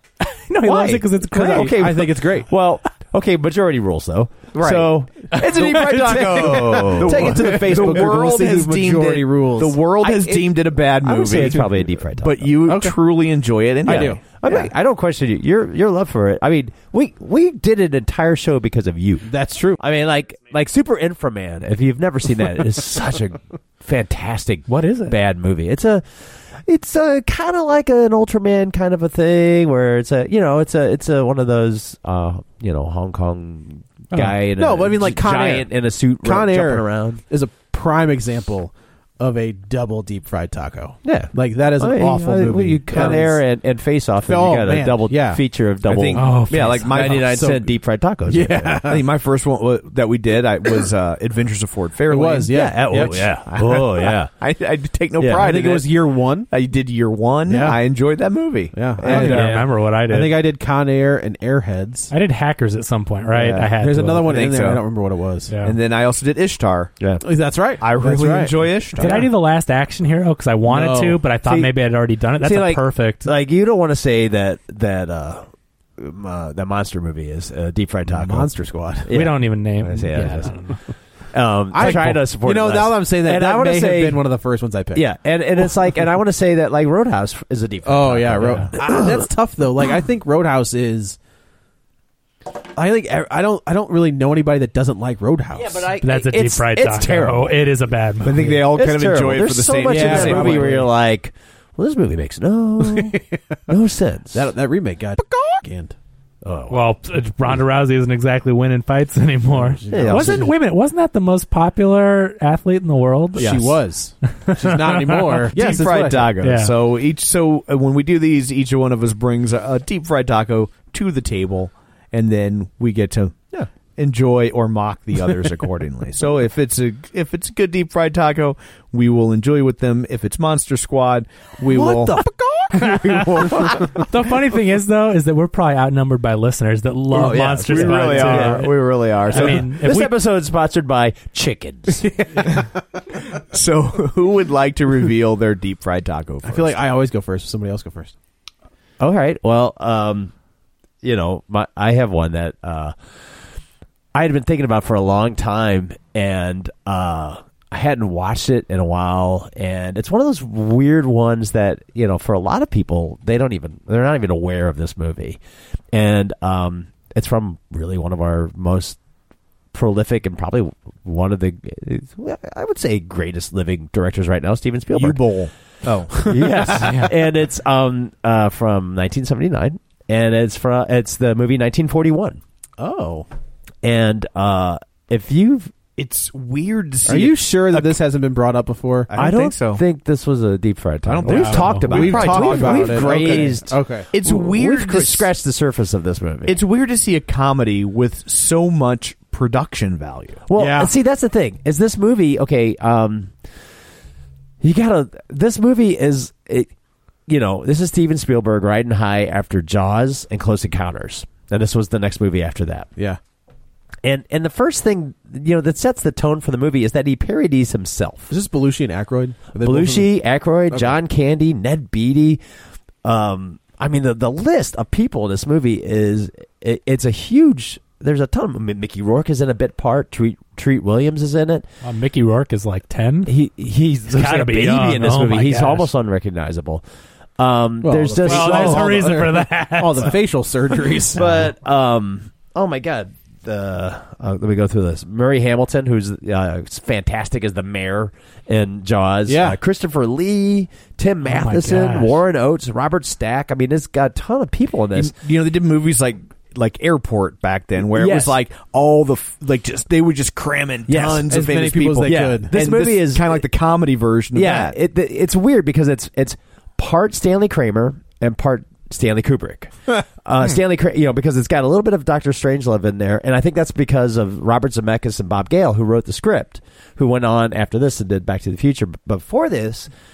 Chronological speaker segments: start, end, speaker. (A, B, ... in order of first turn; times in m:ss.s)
0:00.2-0:01.8 A
0:00.6-0:08.2 B
0:01.4-0:02.5 C
0:04.6-0:11.6 D
0:04.6-0:09.8 C
0:10.0-0:12.6 B
0:11.3-0:11.7 C
0:12.2-0:14.2 D
0:12.7-0:13.0 C
0:13.8-0:26.0 B
0:13.9-0:14.6 C
0:19.2-0:19.8 C
0:24.7-0:25.1 A
0:26.6-0:37.2 B
0:34.6-0:43.4 C
0:41.0-0:48.9 B
0:44.3-0:45.4 C
0:45.8-0:47.3 D
0:46.1-0:47.7 C
0:46.2-0:46.8 A
0:48.2-0:49.0 C
0:48.8-0:55.9 D
0:52.1-0:53.2 C
0:52.5-0:54.3 B
0:55.2-0:55.6 B
0:55.3-0:56.5 C
0:56.5-0:59.6 D
0:57.5-0:57.8 C
0:58.7-1:02.1 C
0:59.1-1:00.4 A
0:59.1-0:59.7 B
1:02.1-1:04.3 A
1:03.3-1:04.8 D
1:03.8-1:05.5 C
1:05.5-1:05.8 A
1:05.6-1:06.9 D
1:07.2-1:09.2 C
1:07.8-1:09.3 D
1:09.0-1:13.3 A
1:10.7-1:11.2 C
1:11.4-1:11.7 B
1:12.4-1:15.4 B
1:16.0-1:20.5 B
1:18.1-1:19.1 C
1:19.1-1:20.8 A
1:21.3-1:24.2 B
1:21.7-1:25.0 C
1:24.9-1:29.2 B
1:27.8-1:31.2 C
1:32.8-1:35.9 C
1:35.5-1:37.7 B
1:36.0-1:38.5 A
1:38.2-1:40.8 D
1:38.4-1:44.5 B
1:39.8-1:40.9 C
1:42.8-1:43.4 C
1:44.3-1:45.9 C
1:46.4-1:46.8 B
1:46.7-1:55.5 A
1:49.5-1:50.4 C
1:49.9-1:50.5 B
1:53.4-1:56.3 C
1:55.5-2:03.4 D
1:56.4-1:56.7 A
2:03.9-2:12.2 D
2:11.6-2:13.9 B
2:12.7-2:20.1 A
2:12.8-2:14.0 D
2:17.1-2:18.7 B
2:17.1-2:19.7 D
2:19.3-2:22.1 B
2:23.3-2:26.8 D
2:26.4-2:28.1 C
2:29.0-2:30.3 B
2:31.0-2:32.9 B
2:34.1-2:45.4 B
2:45.9-2:49.0 B
2:49.7-2:55.2 B
2:54.9-2:56.9 D
2:56.1-2:57.0 C
2:56.2-3:02.4 B
3:02.8-3:03.3 C
3:03.8-3:05.7 B
3:06.0-3:08.0 D
3:07.0-3:09.1 C
3:09.1-3:09.8 D
3:09.2-3:16.6 B
3:11.0-3:15.3 D
3:11.2-3:11.8 A
3:11.9-3:14.1 C
3:16.5-3:20.4 D
3:20.5-3:23.3 B
3:20.5-3:20.9 C
3:24.6-3:26.7 B
3:27.3-3:32.9 B
3:34.0-3:38.3 B
3:38.3-3:40.1 C
3:39.6-3:42.4 B
3:43.0-3:51.7 B
3:51.8-3:53.3 A
3:53.2-3:56.8 B
3:54.1-3:55.9 A
3:57.4-3:59.1 B
3:57.8-4:01.5 C
3:58.2-4:00.2 A
4:01.1-4:15.2 B
4:09.2-4:09.6 C
4:11.2-4:12.2 A
4:14.9-4:24.8 D
4:17.8-4:18.4 B
4:20.9-4:21.3 B
4:21.3-4:22.5 C
4:22.0-4:23.4 B
4:24.3-4:39.9 B